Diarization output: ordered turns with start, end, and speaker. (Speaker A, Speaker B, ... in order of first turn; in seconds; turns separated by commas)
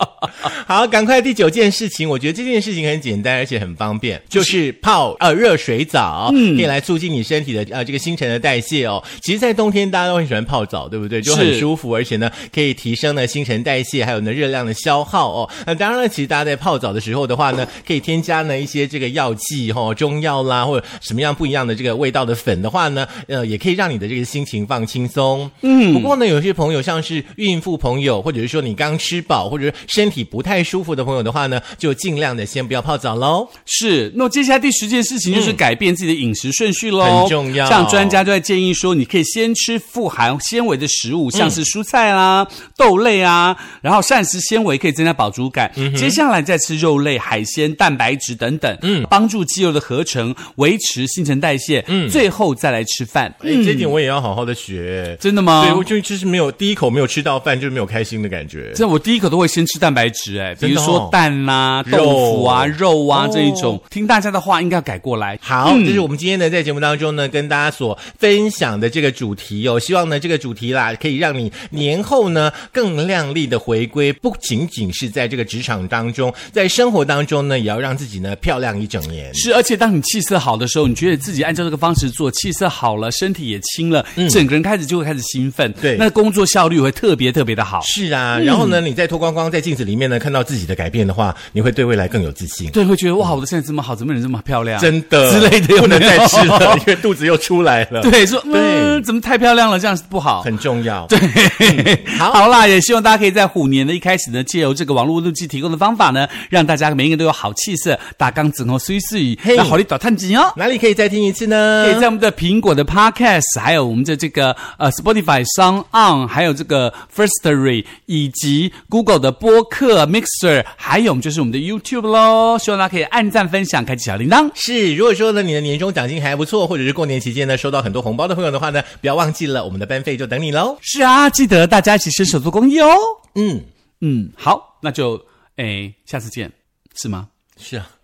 Speaker A: 0.4-33.5, Speaker B: 6.3-6.7, Speaker B: 11.2-11.7, Speaker B: 25.6-26.1, Speaker B: 33.7-53.9, Speaker A: 35.3-35.6, Speaker A: 37.0-38.2, Speaker A: 41.3-41.6, Speaker A: 45.8-46.2, Speaker A: 48.8-49.1, Speaker A: 51.9-52.2, Speaker A: 53.4-58.8, Speaker B: 55.2-55.9, Speaker B: 58.8-66.1, Speaker A: 60.6-61.2, Speaker A: 61.9-63.8, Speaker A: 65.4-79.5, Speaker B: 79.3-88.8, Speaker A: 84.2-84.4, Speaker A: 85.8-86.1, Speaker A: 87.8-93.4, Speaker B: 92.7-96.8, Speaker A: 94.8-99.1, Speaker B: 98.0-100.5, Speaker A: 100.4-102.4, Speaker B: 101.1-110.6, Speaker A: 109.4-109.8, Speaker A: 110.6-112.1, Speaker B: 111.8-124.5, Speaker A: 124.5-130.8, Speaker B: 130.8-133.2, Speaker A: 133.3-133.7, Speaker B: 134.0-137.3, Speaker A: 137.6-137.9